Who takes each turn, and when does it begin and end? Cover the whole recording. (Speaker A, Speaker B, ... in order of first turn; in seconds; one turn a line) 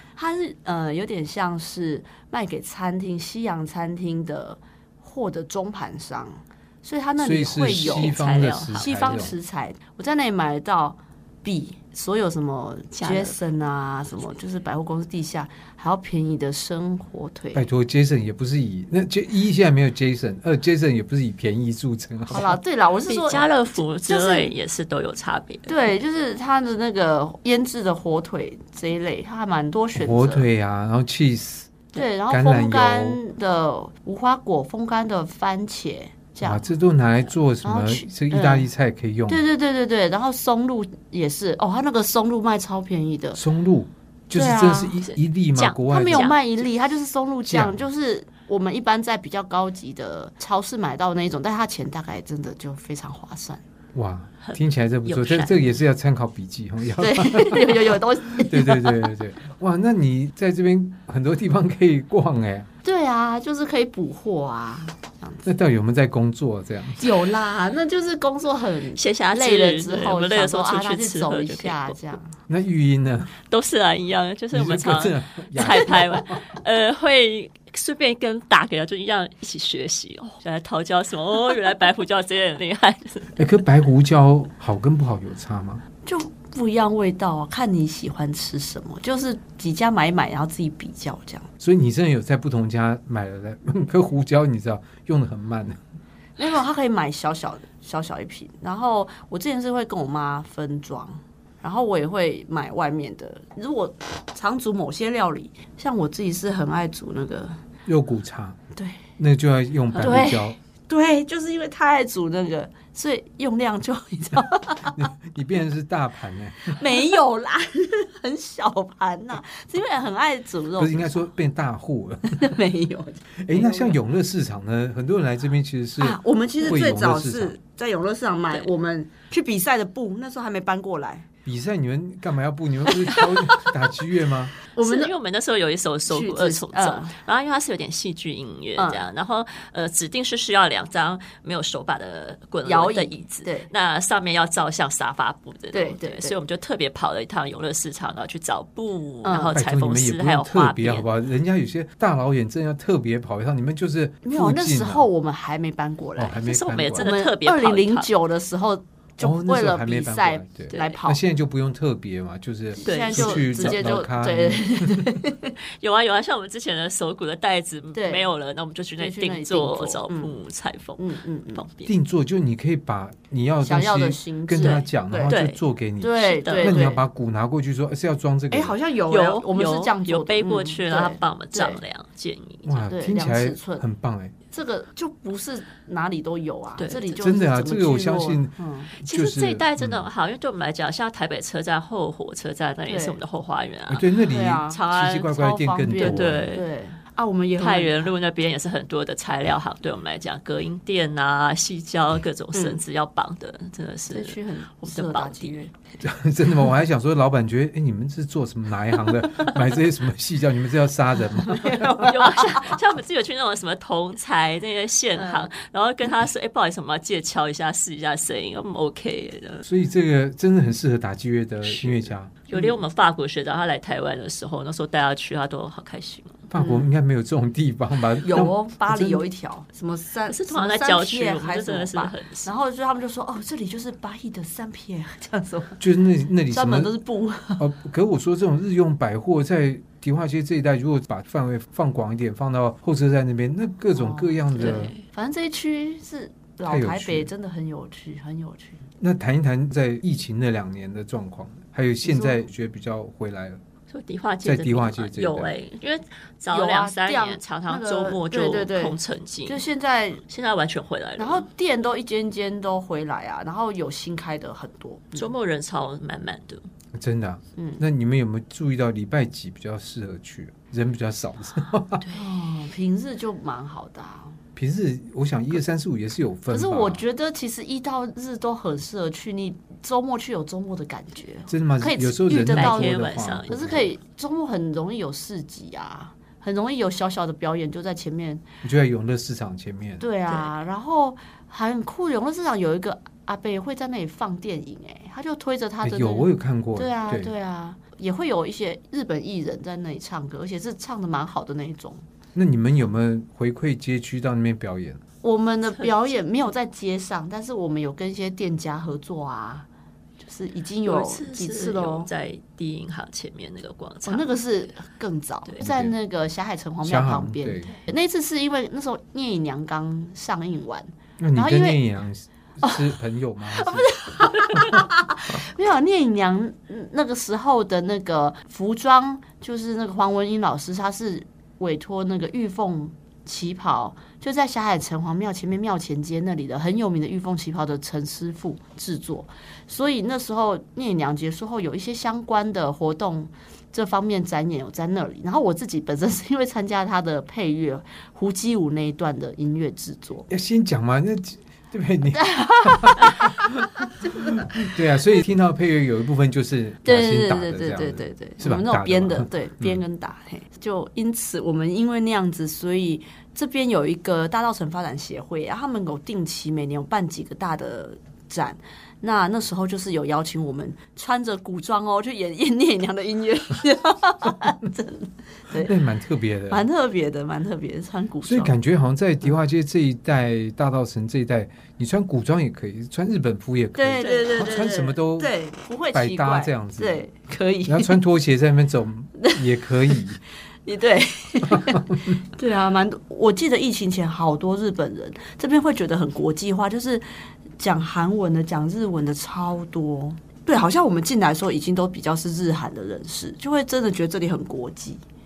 Speaker A: 0.1-17.6
Speaker B: 7.2-9.3
Speaker C: 7.7-9.2
Speaker C: 13.0-13.4
Speaker B: 17.5-22.6
Speaker A: 22.3-24.5
Speaker C: 23.1-25.8
Speaker A: 25.7-30.5
Speaker B: 29.9-33.2
Speaker A: 31.9-36.6
Speaker B: 36.4-39.4
Speaker A: 37.6-38.7
Speaker A: 39.3-43.4
Speaker B: 43.4-46.3
Speaker A: 44.3-45.0
Speaker C: 45.6-46.4
Speaker A: 45.9-53.6
Speaker B: 47.5-47.8
Speaker B: 53.9-62.7
Speaker C: 54.4-55.6
Speaker A: 57.0-59.1
Speaker A: 62.8-65.5
Speaker B: 65.5-67.1
Speaker A: 67.0-72.4
Speaker C: 69.0-72.0
Speaker B: 72.5-73.4
Speaker C: 73.5-83.4
Speaker B: 74.5-76.5
Speaker B: 83.4-85.8
Speaker A: 86.0-91.5
Speaker B: 91.6-95.8
Speaker A: 96.4-107.6
Speaker B: 107.9-108.6
Speaker A: 108.8-109.0
Speaker B: 109.2-110.6
Speaker A: 110.0-115.1
Speaker B: 114.8-117.1
Speaker A: 116.7-121.3
Speaker B: 120.8-122.5
Speaker A: 122.3-124.0
Speaker B: 123.4-127.6
Speaker A: 126.0-131.3
Speaker B: 131.4-134.5
Speaker A: 134.7-135.1
Speaker C: 134.8-151.1
Speaker A: 136.1-137.1
Speaker A: 138.8-139.1
Speaker A: 142.7-143.7
Speaker A: 145.7-146.4
Speaker A: 149.2-149.6
Speaker B: 149.5-155.1
Speaker A: 154.2-156.4
Speaker B: 156.2-157.1
Speaker C: 156.4-158.1
Speaker A: 157.0-161.2
Speaker B: 159.2-165.2
Speaker C: 160.7-161.0
Speaker A: 162.8-165.5
Speaker C: 162.8-163.8
Speaker C: 165.7-171.9
Speaker A: 167.9-168.3
Speaker A: 169.0-170.4
Speaker A: 171.0-171.7
Speaker B: 171.9-178.8
Speaker A: 173.6-175.4
Speaker C: 174.6-175.6
Speaker A: 176.0-177.0
Speaker C: 176.2-176.9
Speaker A: 178.5-181.8
Speaker C: 179.1-182.8
Speaker B: 182.7-184.3
Speaker A: 182.9-183.8
Speaker A: 184.5-188.9
Speaker C: 186.8-187.2
Speaker B: 187.2-190.1
Speaker C: 189.0-195.3
Speaker A: 192.9-193.2
Speaker B: 193.9-196.5
Speaker A: 194.3-198.1
Speaker C: 195.9-196.7
Speaker C: 197.6-205.6
Speaker A: 202.5-202.8
Speaker A: 204.1-205.7
Speaker B: 206.0-211.9
Speaker A: 211.4-212.8
Speaker C: 211.9-219.7
Speaker A: 215.2-215.5
Speaker B: 219.7-222.3
Speaker C: 221.7-226.5
Speaker A: 222.5-222.8
Speaker B: 226.5-229.2
Speaker A: 226.6-226.9
Speaker A: 228.2-235.8
Speaker C: 230.3-232.5
Speaker B: 235.8-236.9
Speaker A: 236.5-237.7
Speaker B: 237.6-244.9
Speaker A: 243.9-248.8
Speaker C: 244.6-245.0
Speaker B: 246.7-247.3
Speaker B: 249.0-253.6
Speaker A: 252.0-252.4
Speaker C: 253.9-259.7
Speaker B: 254.4-255.5
Speaker A: 256.5-260.2
Speaker C: 260.3-261.5
Speaker A: 261.2-265.3
Speaker C: 265.1-266.6
Speaker B: 266.9-272.1
Speaker A: 272.1-274.4
Speaker B: 274.6-277.0
Speaker A: 276.5-288.4
Speaker B: 281.5-283.9
Speaker C: 282.4-283.8
Speaker B: 288.6-290.1
Speaker A: 290.0-302.0
Speaker B: 295.8-297.3
Speaker B: 302.4-305.0
Speaker A: 305.2-309.7
Speaker A: 310.2-312.1
Speaker C: 310.9-314.4
Speaker A: 314.1-321.8
Speaker B: 315.6-315.9
Speaker B: 316.8-317.8
Speaker B: 321.2-324.9
Speaker A: 322.6-322.9
Speaker A: 323.5-350.3
Speaker B: 350.3-359.8
Speaker A: 352.2-354.4
Speaker A: 356.9-375.7
Speaker B: 375.5-376.7
Speaker A: 376.5-378.5
Speaker B: 378.2-385.3
Speaker A: 383.8-388.0
Speaker C: 384.0-384.4
Speaker B: 385.9-387.0
Speaker B: 387.7-390.2
Speaker A: 389.2-390.0
Speaker A: 390.6-397.1
Speaker B: 391.4-392.2
Speaker A: 397.6-405.0